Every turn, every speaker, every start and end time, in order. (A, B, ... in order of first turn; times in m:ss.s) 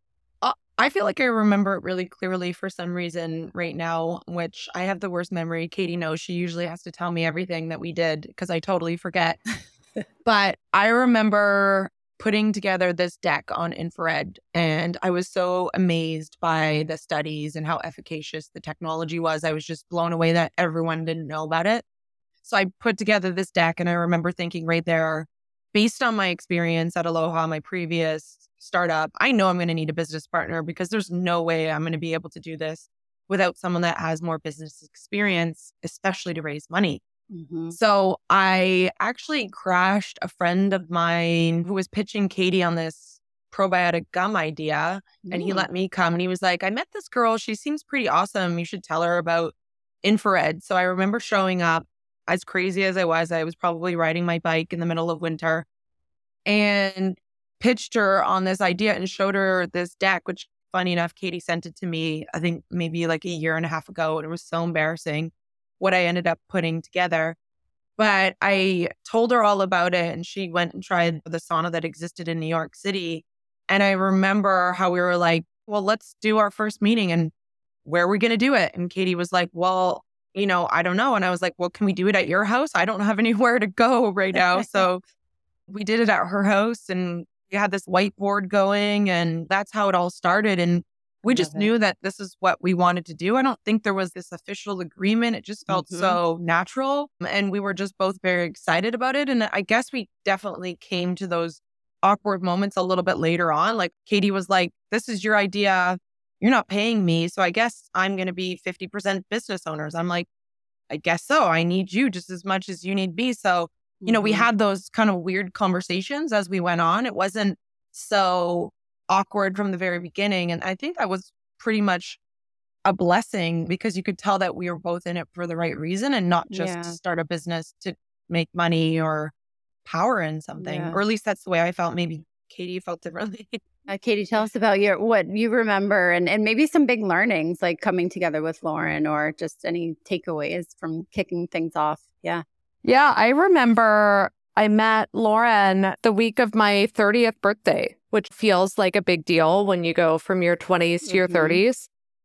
0:00.4-0:09.4 A
0:10.2-0:21.8 A
0:22.4-0:37.0 A
0:37.3-0:37.8 B
0:37.7-0:55.6 A
0:45.2-0:45.7 B
0:56.4-1:07.4 A
1:08.0-1:17.3 A
1:17.8-1:25.0 A
1:25.7-1:50.3 A
1:31.3-1:31.7 B
1:35.7-1:36.2 B
1:50.9-2:02.2 A
1:54.0-1:54.5 B
2:02.8-2:09.3 A
2:06.5-2:07.0 B
2:09.8-2:13.6 A
2:10.6-2:11.0 B
2:13.9-2:22.4 B
2:22.8-2:31.9 C
2:31.0-2:31.6 B